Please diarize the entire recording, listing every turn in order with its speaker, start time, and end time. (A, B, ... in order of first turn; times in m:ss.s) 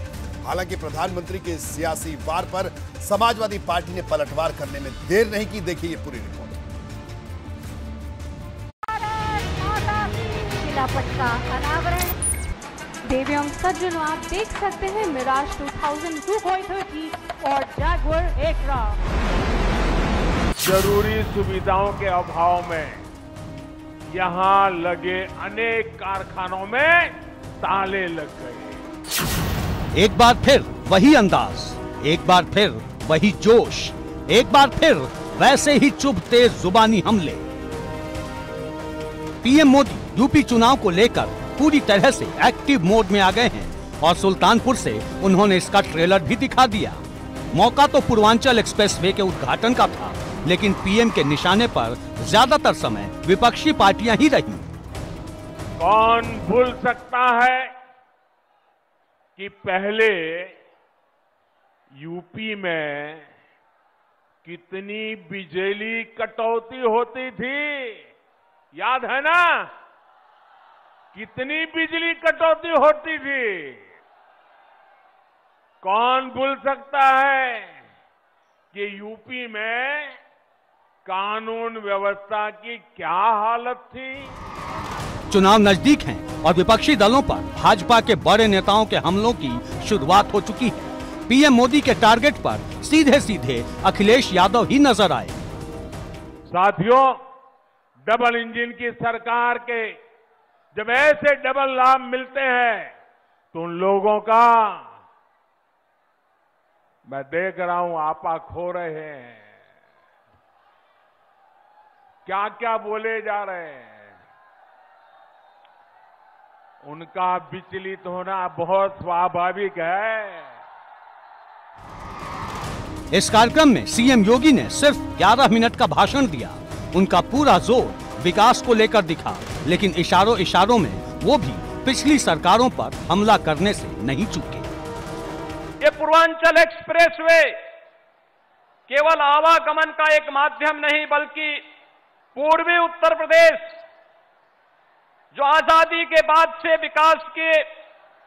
0:00.4-0:06.6 A
0:08.9-0:12.2 B
0:13.0-0:19.0 B
0:20.6-0:23.0 C
0:24.1-0:28.9 C
0:29.9-0:37.5 D
0:39.4-0:54.7 D
0:55.8-0:57.7 C
0:59.4-1:00.6 C
1:01.9-1:03.3 C
1:04.4-1:08.1 C
1:08.7-1:09.7 C
1:11.1-1:13.9 C
1:15.8-1:17.8 C
1:18.7-1:20.2 C
1:21.0-1:24.4 C
1:25.3-1:35.4 D
1:36.5-1:37.2 C
1:38.0-1:40.0 C
1:40.7-1:43.0 C
1:43.5-1:45.0 C
1:47.0-1:49.6 C
1:52.2-1:54.2 C
1:56.8-2:00.6 C
2:03.1-2:14.7 D
2:15.8-2:17.5 E
2:18.9-2:21.6 E
2:22.3-2:23.7 E
2:25.3-2:27.6 E